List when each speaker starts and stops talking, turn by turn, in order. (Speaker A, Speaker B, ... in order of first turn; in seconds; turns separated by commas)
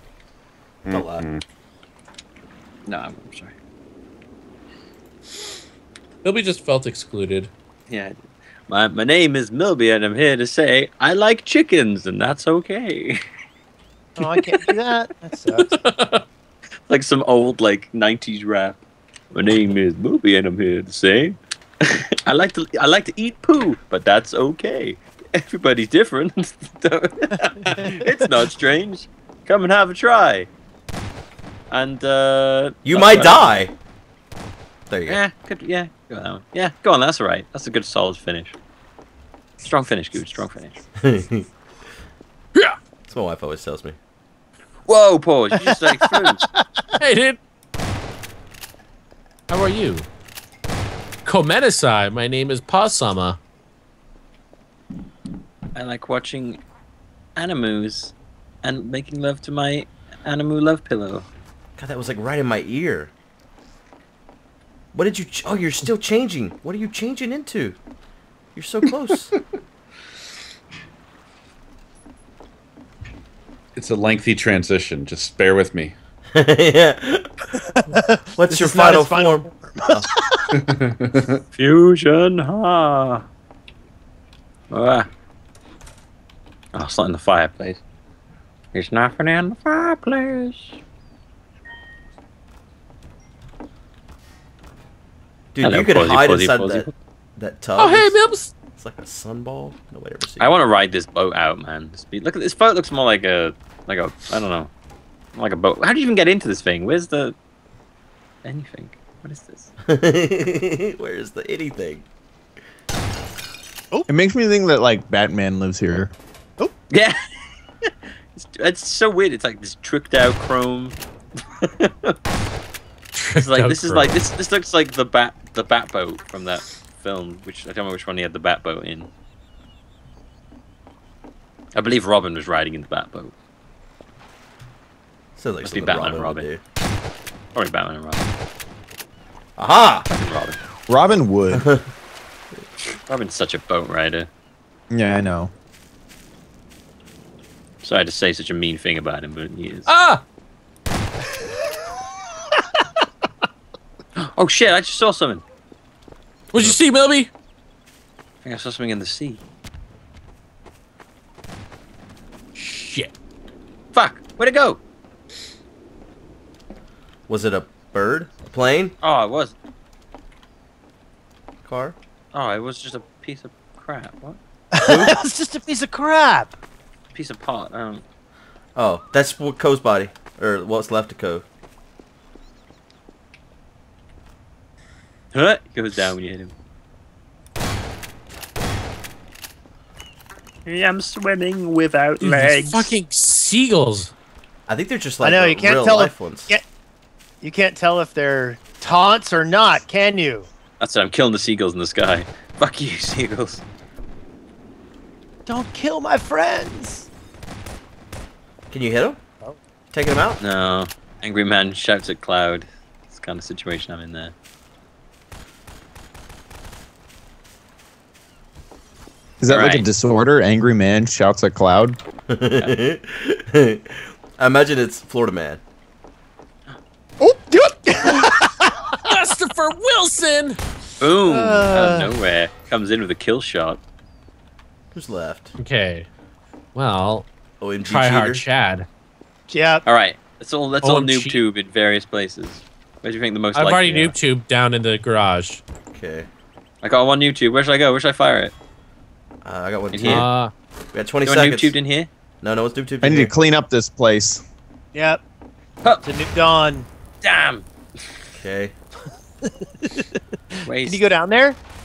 Speaker A: 0.9-1.4, Speaker B: 0.9-1.2, Speaker C: 2.9-3.5, Speaker D: 6.2-7.5, Speaker C: 7.9-8.2, Speaker C: 8.7-13.2, Speaker E: 14.2-15.6, Speaker D: 15.6-16.2, Speaker C: 16.9-18.8, Speaker C: 19.3-30.5, Speaker C: 31.7-33.6, Speaker B: 32.9-33.7, Speaker B: 34.9-35.2, Speaker C: 35.1-38.6, Speaker C: 39.6-40.8, Speaker B: 41.0-41.5, Speaker B: 43.1-44.0, Speaker C: 44.9-46.4, Speaker D: 47.0-47.4, Speaker D: 49.5-50.1, Speaker D: 51.2-53.4, Speaker C: 55.8-56.6, Speaker C: 57.4-61.3, Speaker B: 61.8-63.1, Speaker B: 64.9-67.8, Speaker B: 68.5-69.3, Speaker A: 73.8-76.0, Speaker B: 76.3-77.3, Speaker E: 78.0-80.2, Speaker B: 78.3-80.1, Speaker A: 80.6-81.2, Speaker C: 81.5-83.2, Speaker C: 84.7-85.1, Speaker C: 86.8-87.8, Speaker C: 88.7-90.8, Speaker B: 95.5-98.2, Speaker C: 95.6-96.9, Speaker D: 97.8-98.5, Speaker B: 98.7-100.6, Speaker C: 100.4-104.7, Speaker C: 105.3-107.3, Speaker C: 108.4-109.7, Speaker B: 109.9-112.1, Speaker F: 114.1-116.1, Speaker C: 118.3-121.0, Speaker C: 121.9-122.1, Speaker D: 123.2-124.2, Speaker C: 123.4-129.1, Speaker C: 131.8-133.3, Speaker B: 135.4-136.6, Speaker C: 135.6-136.5, Speaker C: 137.6-138.3, Speaker B: 139.6-140.1, Speaker C: 140.1-140.6, Speaker F: 140.9-141.7, Speaker B: 141.5-141.8, Speaker C: 143.1-144.3, Speaker F: 144.9-145.5, Speaker C: 147.8-149.9, Speaker D: 149.9-150.2, Speaker C: 154.2-155.4, Speaker D: 156.5-157.3, Speaker C: 158.4-159.4, Speaker D: 162.6-163.1, Speaker C: 163.9-164.8, Speaker B: 167.3-168.9, Speaker C: 169.0-169.6, Speaker B: 171.7-172.0, Speaker C: 172.3-175.1, Speaker E: 175.2-176.5, Speaker C: 177.1-178.0, Speaker B: 178.8-181.4, Speaker C: 185.3-186.5, Speaker C: 190.7-192.9, Speaker D: 192.2-194.1, Speaker B: 194.7-196.5, Speaker E: 195.2-196.6, Speaker E: 197.4-200.5, Speaker C: 200.8-203.6, Speaker E: 205.5-207.1, Speaker B: 208.7-209.2, Speaker B: 209.9-210.4, Speaker C: 210.4-214.3, Speaker F: 219.4-222.0, Speaker C: 219.5-219.9, Speaker B: 222.3-225.6, Speaker E: 227.2-228.5, Speaker D: 229.0-230.6, Speaker C: 231.0-233.8, Speaker E: 231.3-232.1, Speaker B: 234.9-235.5, Speaker D: 235.6-236.1, Speaker D: 236.7-237.3, Speaker B: 237.6-238.4, Speaker D: 237.8-238.9, Speaker E: 239.5-239.8, Speaker C: 239.8-244.2, Speaker D: 240.8-241.4, Speaker D: 243.6-245.6, Speaker B: 245.9-246.3, Speaker C: 246.8-248.5, Speaker B: 249.4-250.3, Speaker C: 249.9-250.3, Speaker D: 250.1-250.5, Speaker B: 250.9-251.8, Speaker C: 251.2-252.1, Speaker B: 252.4-253.3, Speaker F: 253.0-254.4, Speaker E: 254.9-255.2, Speaker C: 255.8-256.1, Speaker E: 256.0-256.9, Speaker C: 257.2-257.7, Speaker B: 258.3-258.8, Speaker C: 260.6-261.1, Speaker E: 260.9-261.6